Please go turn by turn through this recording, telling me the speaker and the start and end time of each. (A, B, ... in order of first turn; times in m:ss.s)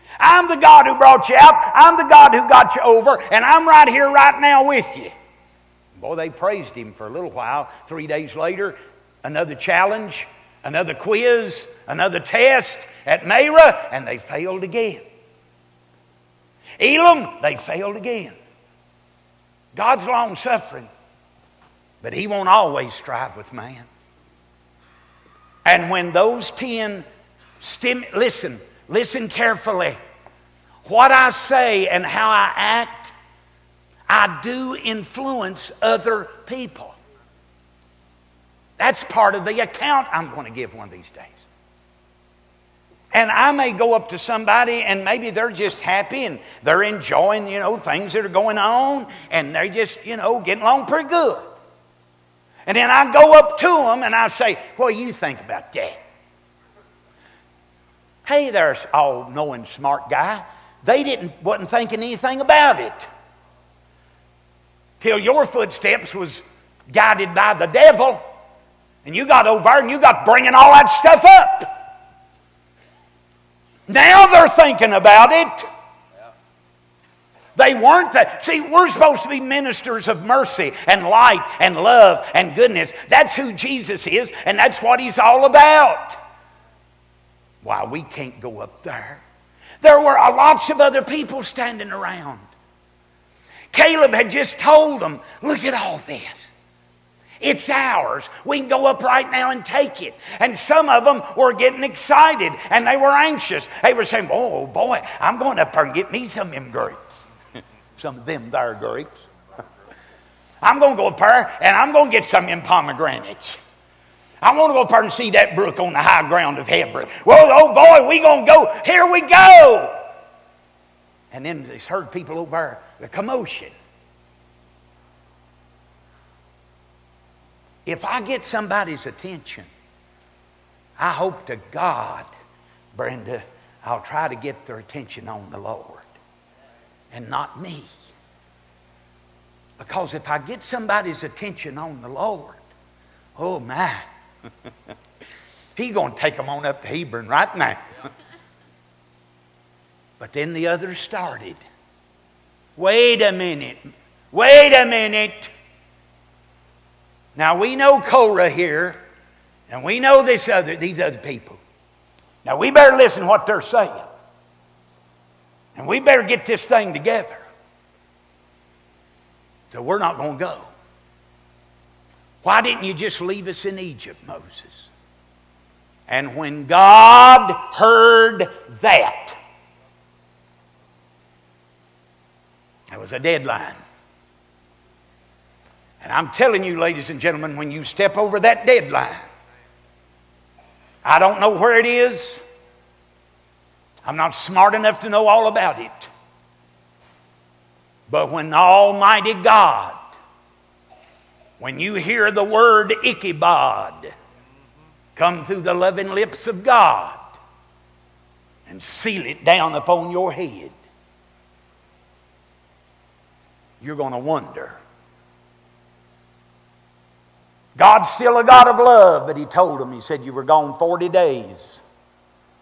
0:00.2-0:05.1 A
0:06.0-0:15.0 A
0:16.8-0:18.4 A
0:19.7-0:20.9 A
0:22.0-0:23.9 A
0:25.6-0:27.1 A
0:27.6-0:30.0 A
0:30.8-0:33.1 A
0:34.1-0:37.0 A
0:38.8-0:41.5 A
0:43.1-0:51.5 A
0:52.7-0:56.0 A
0:58.2-1:03.1 A
1:05.0-1:08.2 A
1:09.0-1:11.8 A
1:13.9-1:15.6 A
1:17.6-1:26.2 A
1:27.6-1:29.2 A
1:29.8-1:32.5 A
1:33.7-1:36.5 A
1:37.4-1:47.3 A
1:48.0-1:49.1 A
1:50.6-1:53.6 A
1:54.4-2:00.0 A
2:01.3-2:03.7 A
2:07.9-2:09.7 A
2:11.0-2:12.3 A
2:12.9-2:16.1 A
2:17.1-2:17.9 A
2:19.8-2:22.6 A
2:23.4-2:24.0 A
2:25.8-2:27.8 A
2:30.2-2:31.6 A
2:32.8-2:35.5 A
2:37.4-2:39.0 A
2:39.7-2:41.6 A
2:42.4-2:44.1 A
2:45.8-2:47.5 A
2:49.7-2:50.7 A
2:52.4-2:54.9 A
2:56.1-2:59.4 A
3:02.9-3:03.8 A
3:06.0-3:09.3 A
3:11.0-3:12.4 A
3:14.0-3:16.1 A
3:18.1-3:20.0 A
3:21.6-3:24.1 A
3:25.2-3:27.2 A
3:28.7-3:30.7 A
3:33.8-3:34.8 A
3:37.8-3:41.8 A